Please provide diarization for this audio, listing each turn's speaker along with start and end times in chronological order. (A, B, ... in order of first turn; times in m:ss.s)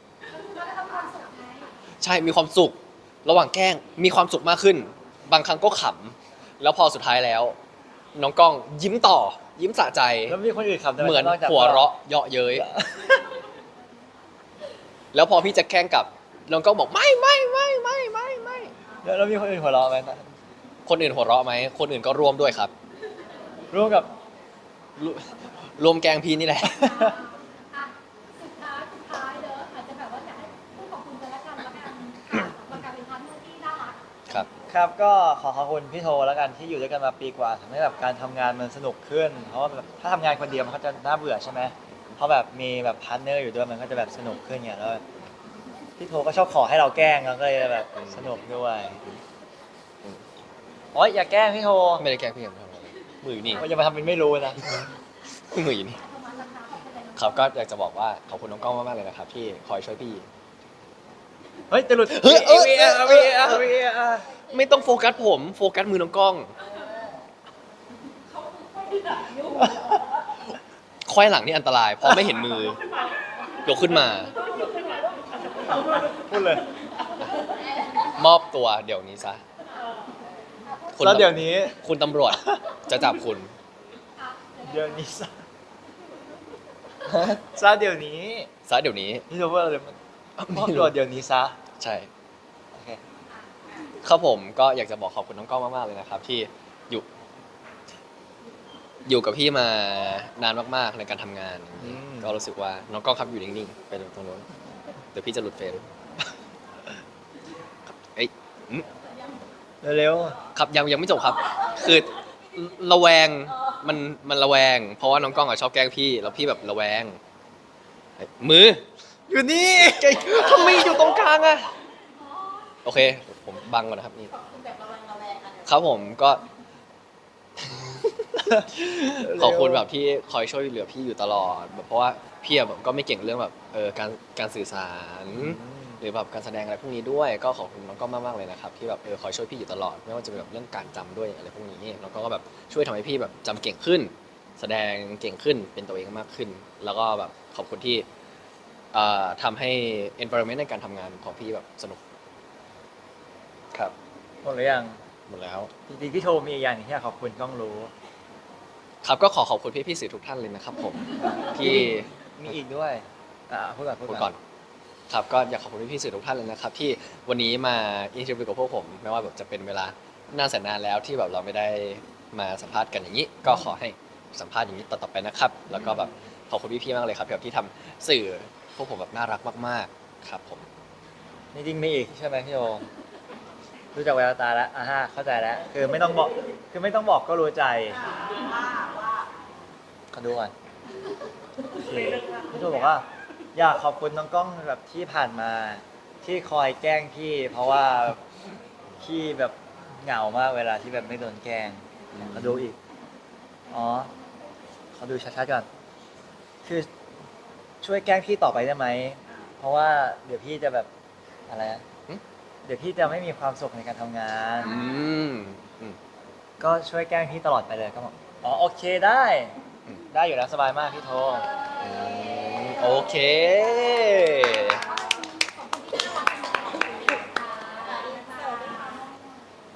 0:00.3-0:01.7 A
0:02.0-0:07.6 B
0:08.1-0:10.4 B
0:10.3-0:11.9 C
0:11.0-0:12.7 B
0:12.6-0:13.3 C
0:15.1-0:18.7 B
0:19.0-0:20.3 C
0:20.8-0:22.7 B
0:23.7-0:24.1 C
0:25.0-0:27.0 B
0:26.7-0:34.0 A
0:34.7-0:45.0 C
0:46.0-0:49.0 C
0:48.0-0:48.3 B
0:50.9-0:52.0 C
0:52.0-0:53.6 B
0:53.5-0:54.6 C
0:55.5-0:56.0 B
0:55.9-0:57.5 A
0:57.2-1:00.2 B
1:01.7-1:04.3 C
1:02.1-1:03.7 B
1:04.4-1:06.5 B
1:08.3-1:10.0 A
1:11.0-1:12.8 B
1:13.6-1:14.3 B
1:16.1-1:16.6 C
1:17.4-1:18.1 A
1:18.1-1:19.4 B
1:20.7-1:21.0 A
1:20.9-1:23.5 B
1:21.0-1:22.8 C
1:24.2-1:25.1 A
1:24.6-1:25.4 C
1:27.1-1:28.5 C
1:28.7-1:29.3 B
1:29.3-1:30.0 C
1:30.4-1:30.9 B
1:30.5-1:31.6 C
1:31.8-1:32.1 B
1:32.7-1:33.0 C
1:34.0-1:37.0 B
1:39.0-1:44.5 B
1:41.8-1:42.3 C
1:45.1-1:45.8 B
1:47.9-1:48.9 B
1:49.8-1:50.4 C
1:50.5-1:57.2 B
1:58.2-2:01.7 B
1:59.3-2:00.8 C
2:02.2-2:02.8 A
2:02.8-2:04.3 B
2:04.4-2:05.6 D
2:05.6-2:06.4 B
2:07.6-2:28.0 B
2:09.2-2:09.8 C
2:15.3-2:16.0 C
2:28.9-2:32.0 B
2:34.4-2:35.0 C
2:35.3-2:35.7 B
2:35.9-2:37.9 C
2:39.0-2:42.1 B
2:41.5-2:44.3 C
2:44.1-2:44.4 B
2:45.1-3:00.7 B
3:01.5-3:02.8 C
3:03.9-3:08.0 C
3:08.0-3:09.3 D
3:10.1-3:10.5 C
3:11.7-3:18.2 C
3:12.2-3:12.5 D
3:19.0-3:22.8 C
3:22.1-3:22.6 B
3:23.7-3:24.1 C
3:25.0-3:25.7 C
3:26.6-3:26.9 C
3:27.8-3:30.9 C
3:31.5-3:31.8 C
3:32.6-3:34.8 C
3:34.6-3:36.0 B
3:36.6-3:39.5 C
3:40.1-3:41.4 C
3:41.8-3:44.8 B
3:44.6-3:49.0 A
3:47.9-3:49.2 D